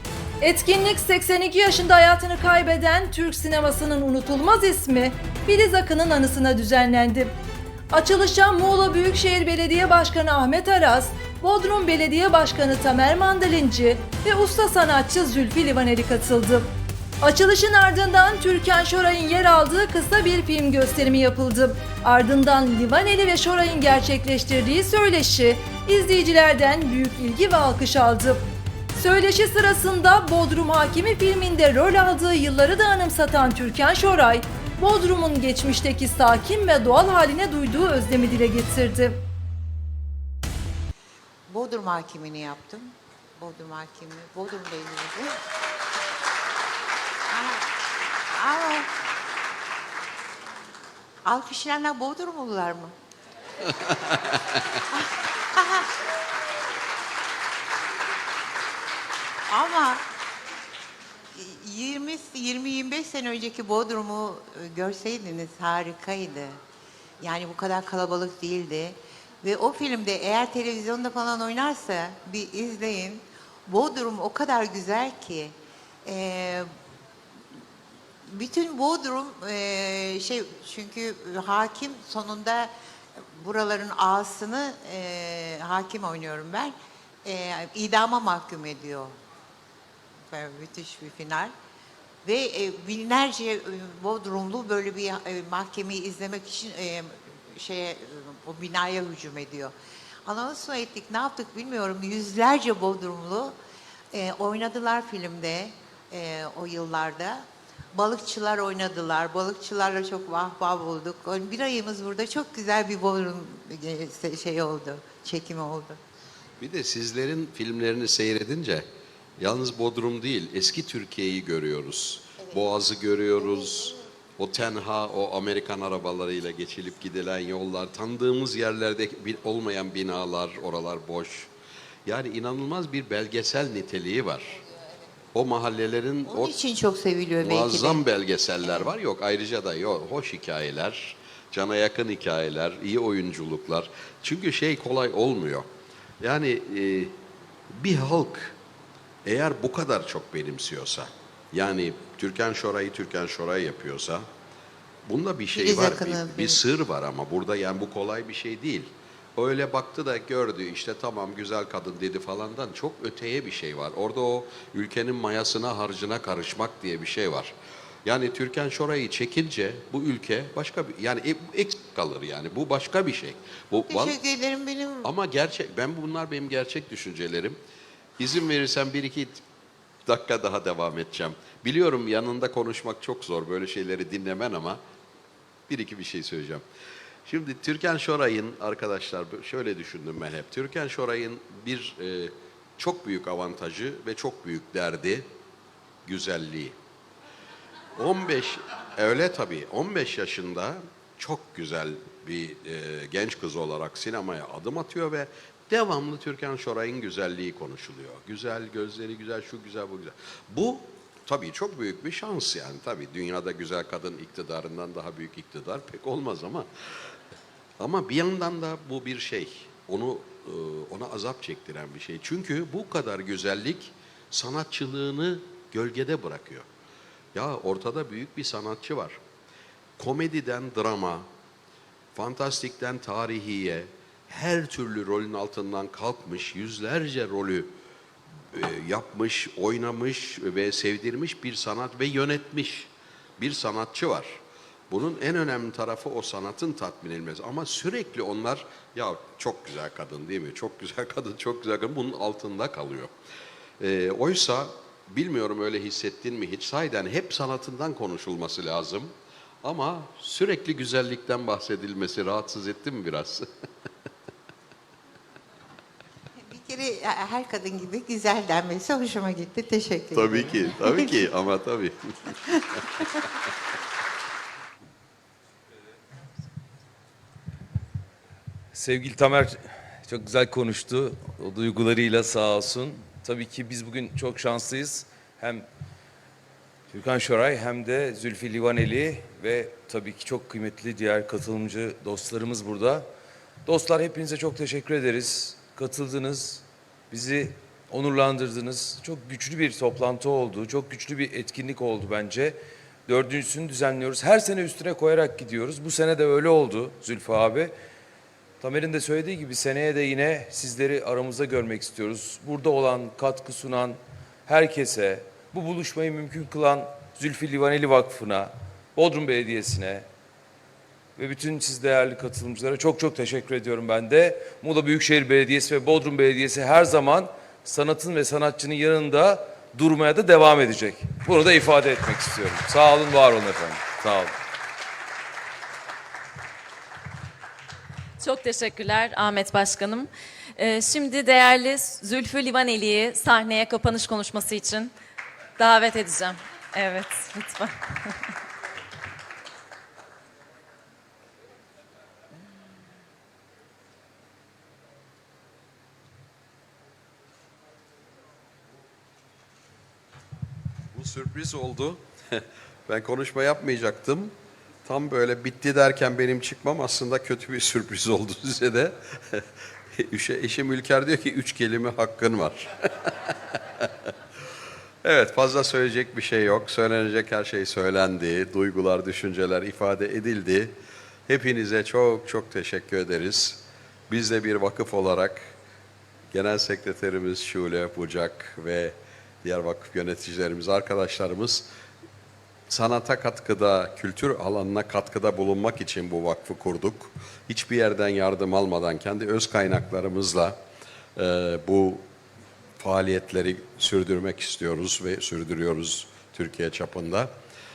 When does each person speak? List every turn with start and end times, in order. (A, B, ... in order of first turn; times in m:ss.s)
0:00.4-0:07.3 A
0:07.9-0:16.7 A
0:17.2-0:28.4 A
0:28.9-0:39.2 A
0:41.5-0:45.4 B
0:47.3-0:47.7 B
0:48.3-0:48.9 B
0:51.2-0:52.9 B
0:54.1-0:54.6 C
0:54.9-0:55.9 B
0:59.5-1:00.0 B
1:01.3-1:06.6 B
1:07.2-1:16.7 B
1:18.3-1:26.7 B
1:27.2-1:29.1 B
1:30.3-1:31.5 B
1:32.2-1:39.7 B
1:40.2-1:43.6 B
1:44.1-1:56.0 B
1:56.6-1:58.8 C
1:59.4-2:11.5 C
2:12.0-2:14.6 C
2:15.3-2:16.5 C
2:16.2-2:18.0 B
2:17.4-2:25.7 C
2:18.6-2:18.9 B
2:26.2-2:27.1 C
2:27.7-2:28.6 C
2:29.2-2:34.2 C
2:35.0-2:54.2 C
2:35.5-2:36.6 B
2:53.9-2:55.1 B
2:55.0-2:57.6 C
2:58.2-2:59.4 C
3:00.0-3:04.8 C
3:05.7-3:06.6 C
3:07.2-3:15.3 C
3:16.0-3:16.8 C
3:18.0-3:36.7 C
3:37.8-3:46.7 C
3:47.3-3:49.2 C
3:50.0-3:51.3 C
3:52.1-3:57.7 C
3:58.5-4:04.4 C
4:04.9-4:13.1 C
4:13.8-4:23.5 C
4:26.4-4:31.2 B
4:30.1-4:32.4 C
4:38.7-4:45.6 D
4:46.9-4:53.1 D
4:53.6-5:07.7 D
5:08.6-5:20.1 D
5:21.2-5:34.3 D
5:38.2-5:44.9 E
5:45.6-5:48.1 E
6:00.9-6:04.3 C
6:04.8-6:14.1 C
6:15.0-6:20.8 C
6:21.3-6:25.5 C
6:26.3-6:31.6 C
6:32.7-6:40.6 C
6:41.2-6:42.0 C
6:42.8-6:47.3 C